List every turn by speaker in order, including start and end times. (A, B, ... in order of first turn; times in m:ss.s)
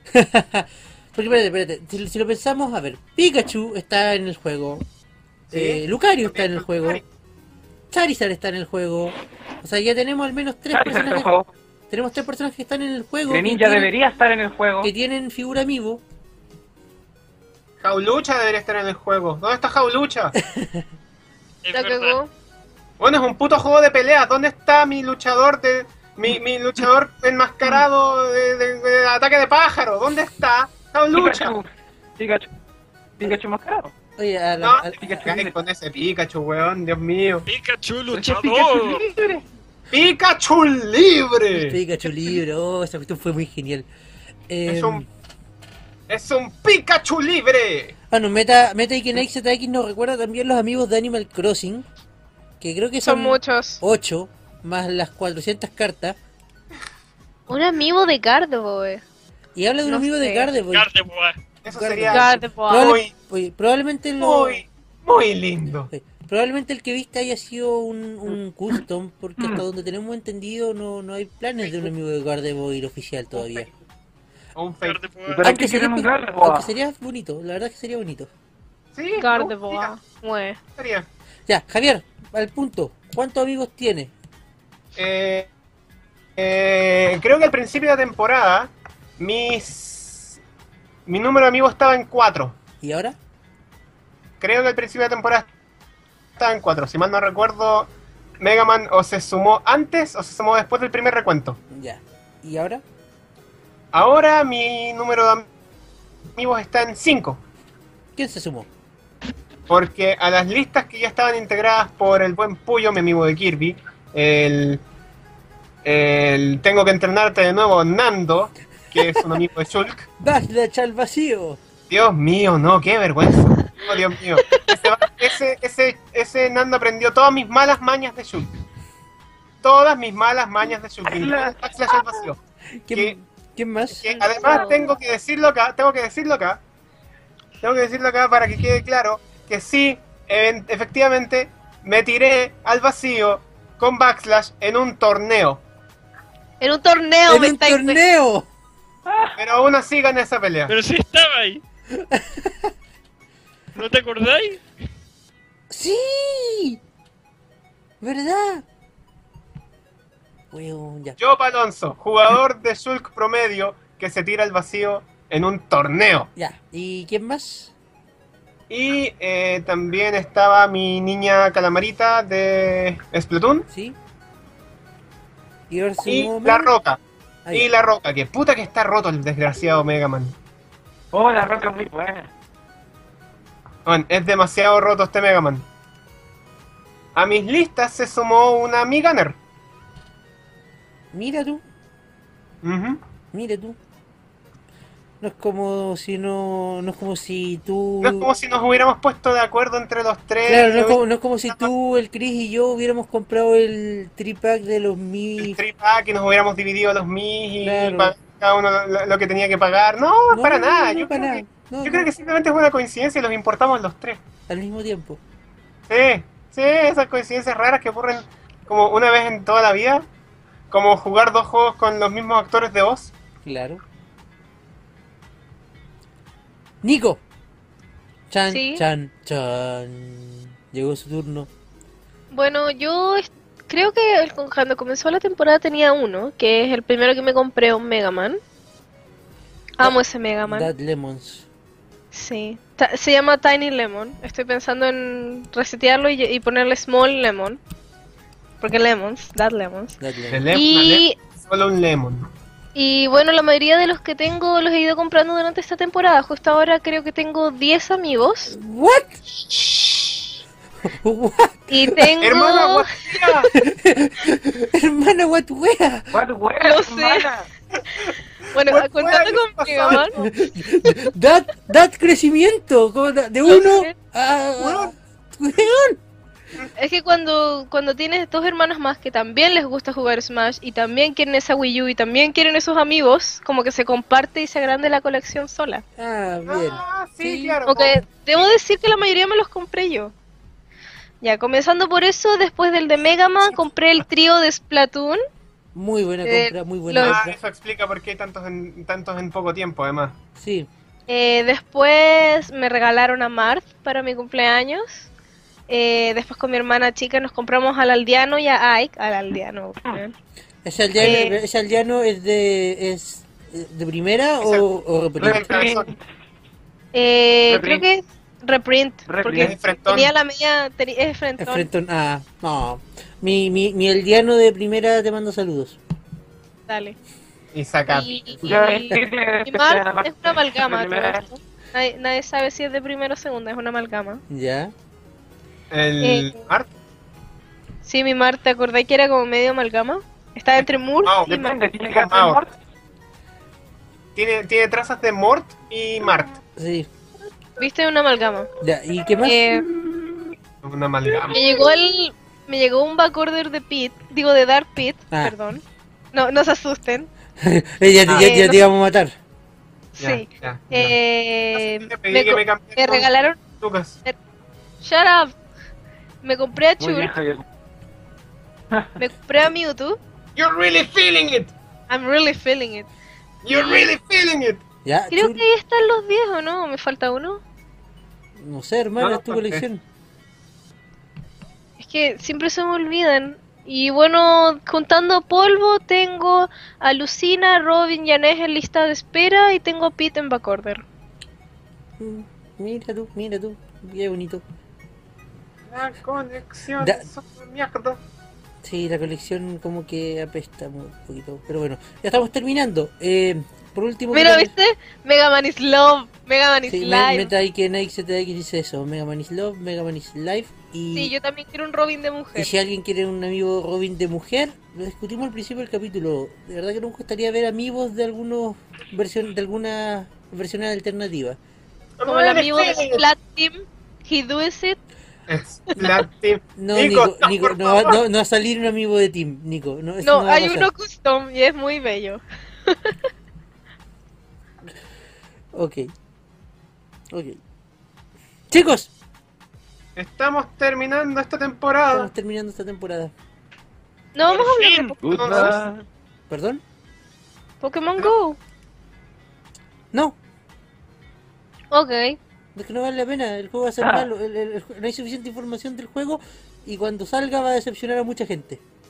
0:00.1-0:04.8 A
0:05.5-0:07.0 B
0:05.5-0:07.0 A
0:07.9-0:11.3 A
0:10.7-0:11.5 C
0:11.9-0:13.9 A
0:13.3-0:14.9 C
0:14.8-0:16.0 A
0:17.8-0:20.3 B
0:20.4-0:20.8 A
0:21.6-0:22.2 D
0:21.7-0:22.3 E
0:23.0-0:31.5 B
0:31.1-0:32.5 C
0:33.2-0:33.9 C
0:34.2-0:35.4 A
0:34.6-0:37.5 B
0:35.0-0:35.5 C
0:37.4-0:39.0 D
0:38.1-0:39.4 C
0:39.9-0:41.8 B
0:41.5-0:43.9 A
0:44.5-0:45.1 A
0:44.7-0:45.0 B
0:46.1-0:47.9 B
0:48.1-0:51.8 A
0:52.6-0:56.2 A
0:53.0-0:53.8 E
0:57.5-0:59.0 E
0:59.6-1:00.9 A
0:59.8-1:00.5 E
1:00.7-1:01.4 D
1:01.6-1:03.1 B
1:01.6-1:04.6 A
1:02.1-1:03.0 E
1:04.2-1:05.9 B
1:05.9-1:13.7 A
1:13.4-1:13.6 B
1:14.6-1:15.0 B
1:14.8-1:15.5 D
1:15.3-1:16.7 C
1:15.4-1:18.3 A
1:18.9-1:19.9 B
1:19.2-1:20.6 E
1:20.8-1:21.1 B
1:21.5-1:24.1 A
1:25.0-1:25.5 B
1:26.4-1:30.4 B
1:31.1-1:32.6 B
1:32.8-1:33.2 A
1:34.4-1:35.5 B
1:36.4-1:41.6 B
1:41.7-1:42.8 A
1:43.9-1:45.5 B
1:46.4-1:47.4 B
1:48.2-1:48.7 A
1:49.7-1:54.8 B
1:55.8-2:00.1 B
2:00.2-2:01.6 A
2:01.9-2:08.5 B
2:04.4-2:04.7 E
2:09.6-2:12.4 B
2:11.1-2:11.6 C
2:12.8-2:14.2 A
2:14.0-2:16.6 B
2:14.2-2:14.9 E
2:17.6-2:25.6 B
2:26.6-2:28.0 E
2:27.3-2:28.5 A
2:29.1-2:29.4 C
2:29.4-2:30.7 B
2:30.7-2:31.6 D
2:31.9-2:32.7 A
2:33.7-2:34.6 D
2:35.7-2:36.8 A
2:38.0-2:38.6 A
2:40.5-2:41.2 A
2:41.2-2:46.3 B
2:46.4-2:47.7 A
2:48.7-2:53.7 B
2:53.7-2:54.0 A
2:55.7-2:56.7 A
2:56.0-2:57.0 B
2:57.5-3:00.4 B
3:01.1-3:02.3 C
3:03.8-3:05.6 B
3:07.1-3:09.4 B
3:11.1-3:11.6 A
3:12.6-3:13.0 B
3:13.3-3:13.8 A
3:15.2-3:18.3 A
3:18.0-3:21.7 B
3:20.4-3:25.6 A
3:25.4-3:34.2 B
3:27.6-3:28.1 A
3:30.3-3:32.1 A
3:34.5-3:35.2 A
3:35.9-3:40.0 B
3:40.7-3:43.1 B
3:43.4-3:43.8 A
3:46.8-3:47.2 A
3:48.3-3:51.5 A
3:48.5-3:48.8 E
3:52.3-3:58.4 E
3:59.8-4:00.7 E
3:59.8-4:01.4 A
4:02.1-4:07.6 E
4:08.6-4:10.0 E
4:10.0-4:10.4 A
4:10.3-4:12.3 B
4:10.5-4:11.2 E
4:12.7-4:18.5 E
4:18.5-4:19.2 A
4:19.4-4:20.4 B
4:20.9-4:22.1 A
4:21.7-4:23.4 E
4:22.2-4:23.5 B
4:23.5-4:26.1 A
4:26.1-4:27.4 C
4:26.6-4:27.3 E
4:27.9-4:30.3 B
4:28.5-4:30.2 E
4:29.9-4:36.0 A
4:33.5-4:33.9 E
4:34.6-4:34.9 B
4:36.8-4:45.8 E
4:46.0-4:47.6 A
4:46.5-4:48.5 B
4:47.6-4:50.1 E
4:51.2-4:55.2 E
4:55.7-4:57.4 A
4:56.2-4:57.2 E
4:57.0-5:00.2 B
5:00.3-5:00.7 A
5:01.1-5:05.1 E
5:05.7-5:10.1 E
5:10.6-5:15.5 A
5:11.0-5:11.4 E
5:15.2-5:16.0 C
5:15.2-5:15.9 B
5:16.9-5:21.7 E
5:17.5-5:17.8 C
5:19.0-5:19.6 C
5:19.3-5:20.1 B
5:21.4-5:25.8 A
5:26.7-5:27.0 E
5:27.5-5:28.6 B
5:27.9-5:34.2 E
5:28.4-5:31.3 C
5:34.3-5:34.7 A
5:35.7-5:36.7 B
5:36.0-5:36.4 E
5:37.8-5:41.6 E
5:41.0-5:42.4 B
5:41.3-5:42.5 C
5:44.2-5:46.4 B
5:46.6-5:46.9 A
5:47.6-5:48.5 E
5:48.6-5:49.8 A
5:49.2-5:49.6 E
5:50.6-5:51.5 B
5:51.3-5:55.6 E
5:56.1-5:57.1 E
5:57.4-5:59.1 A
5:58.1-5:58.3 B
5:58.1-5:58.6 E
6:00.0-6:03.4 E
6:00.0-6:01.0 B
6:01.5-6:04.0 B
6:04.8-6:05.3 E
6:06.2-6:07.1 E
6:06.8-6:07.4 C
6:09.0-6:10.0 E
6:10.4-6:11.5 B
6:11.9-6:12.9 E
6:13.4-6:14.6 B
6:13.5-6:13.9 E
6:14.8-6:15.4 A
6:15.1-6:17.4 E
6:18.4-6:19.8 A
6:19.0-6:19.6 B
6:21.8-6:30.8 E
6:32.0-6:34.4 A
6:35.7-6:38.0 B
6:36.8-6:37.0 A
6:38.6-6:44.5 A
6:44.1-6:47.3 E
6:46.7-6:51.1 A
6:50.9-6:52.5 E
6:52.4-7:01.4 A
7:02.0-7:03.0 B
7:02.0-7:04.8 E
7:05.3-7:08.0 B
7:05.7-7:06.0 E
7:06.6-7:10.7 A
7:10.0-7:13.0 E
7:15.5-7:15.9 A
7:17.1-7:17.4 A
7:18.5-7:18.9 A
7:20.0-7:22.1 B
7:21.9-7:23.1 A
7:24.1-7:24.9 E
7:24.3-7:25.6 B
7:24.4-7:25.6 D
7:25.0-7:25.8 C
7:26.3-7:26.6 A
7:27.6-7:28.4 E
7:29.9-7:30.2 A
7:31.7-7:32.2 E
7:32.5-7:38.6 A
7:33.8-7:34.1 C